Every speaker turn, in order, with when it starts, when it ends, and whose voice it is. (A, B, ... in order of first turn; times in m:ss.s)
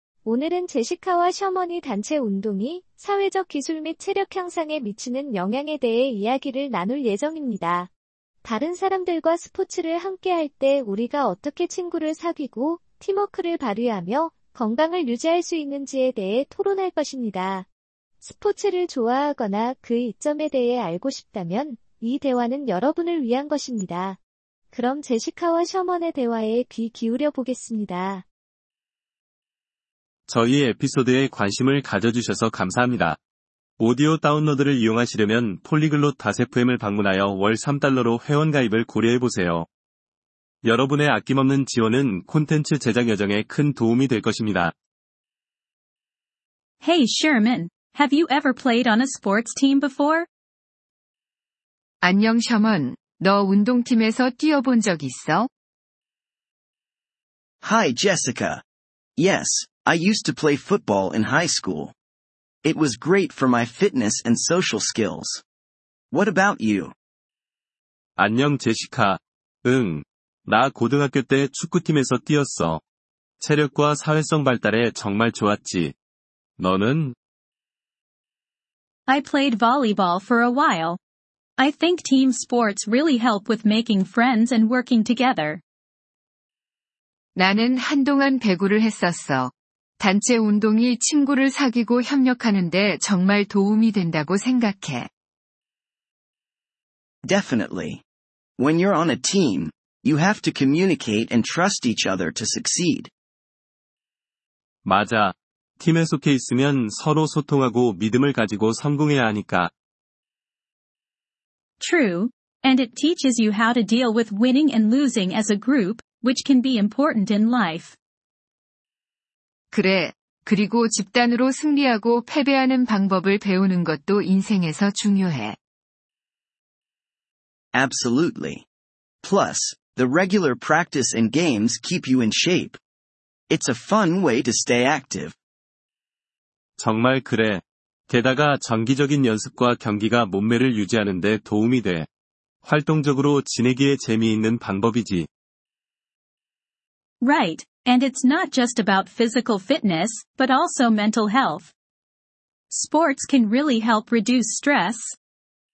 0:00.2-0:07.9 A
0:08.4-0:17.7 A
0:18.2-0:24.2 A
0:24.7-0:28.2 A
0:30.3-0:33.2 B
0:33.8-0:39.7 B
0:40.6-0:44.7 B
0:46.8-0:50.3 C
0:52.0-0:55.5 D
0:57.6-0:58.6 E
0:59.2-1:01.9 E
1:02.6-1:05.4 E
1:06.1-1:06.9 E
1:08.2-1:12.8 B
1:13.4-1:15.9 B
1:16.6-1:17.1 B
1:19.1-1:21.0 C
1:21.6-1:25.6 C
1:27.4-1:35.1 D
1:37.2-1:38.0 E
1:38.6-1:43.1 E
1:44.8-1:49.7 B
1:51.8-1:58.0 C
1:59.7-2:05.6 D
2:07.7-2:08.6 E
2:09.2-2:12.8 E
2:13.5-2:15.3 E
2:16.8-2:22.1 B
2:22.6-2:25.3 B
2:27.2-2:31.7 C
2:32.7-2:35.2 C